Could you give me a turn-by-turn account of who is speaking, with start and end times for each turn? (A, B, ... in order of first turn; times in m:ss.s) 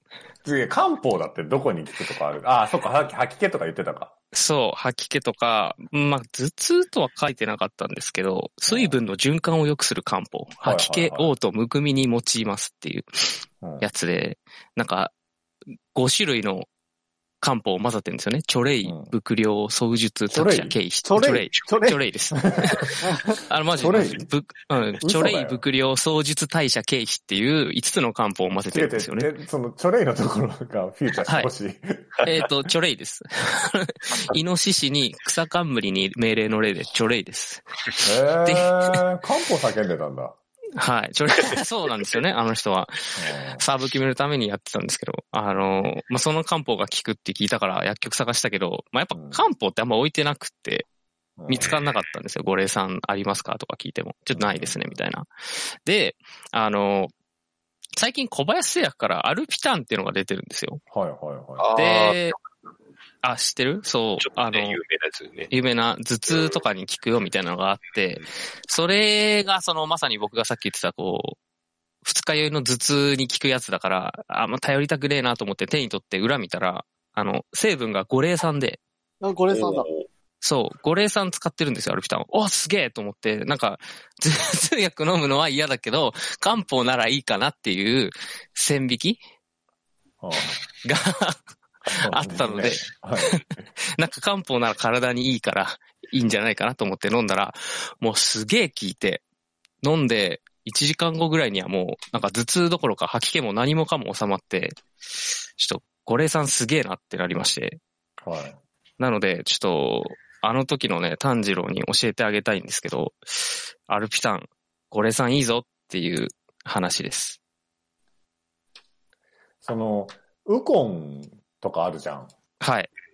0:00.4-0:04.1 A
0:04.3-0:15.1 B
0:08.7-0:09.0 A
0:10.6-0:11.3 A
0:13.6-0:13.9 A
0:15.9-0:16.7 B
0:17.4-0:29.3 B
0:18.8-0:19.1 A
0:20.3-0:20.8 A
0:21.0-0:22.0 C
0:22.5-0:22.8 A
0:23.0-0:23.4 C
0:23.8-0:24.3 A
0:25.0-0:25.6 A
0:28.7-0:32.4 A
0:32.2-0:38.7 B
0:38.0-0:40.4 A
0:40.8-0:50.8 B
0:43.2-0:43.6 A
0:45.5-0:45.9 A
0:49.1-0:49.4 A
0:51.4-0:51.7 A
0:51.5-0:55.3 B
0:51.6-0:52.0 D
0:54.3-0:54.8 A
0:55.8-0:57.1 B
0:58.0-1:00.8 B
1:00.9-1:01.7 A
1:01.6-1:02.3 D
1:01.8-1:02.4 B
1:03.2-1:04.8 B
1:04.2-1:05.5 D
1:05.5-1:11.4 B
1:06.3-1:06.6 D
1:12.0-1:18.8 B
1:19.2-1:19.9 C
1:19.5-1:20.1 D
1:20.4-1:29.2 B
1:30.2-1:30.6 A
1:30.8-1:39.2 B
1:32.0-1:33.6 A
1:39.8-1:44.8 B
1:45.6-1:47.8 B
1:48.2-1:48.6 A
1:49.0-1:57.4 B
1:59.6-2:02.3 A
2:02.6-2:02.9 B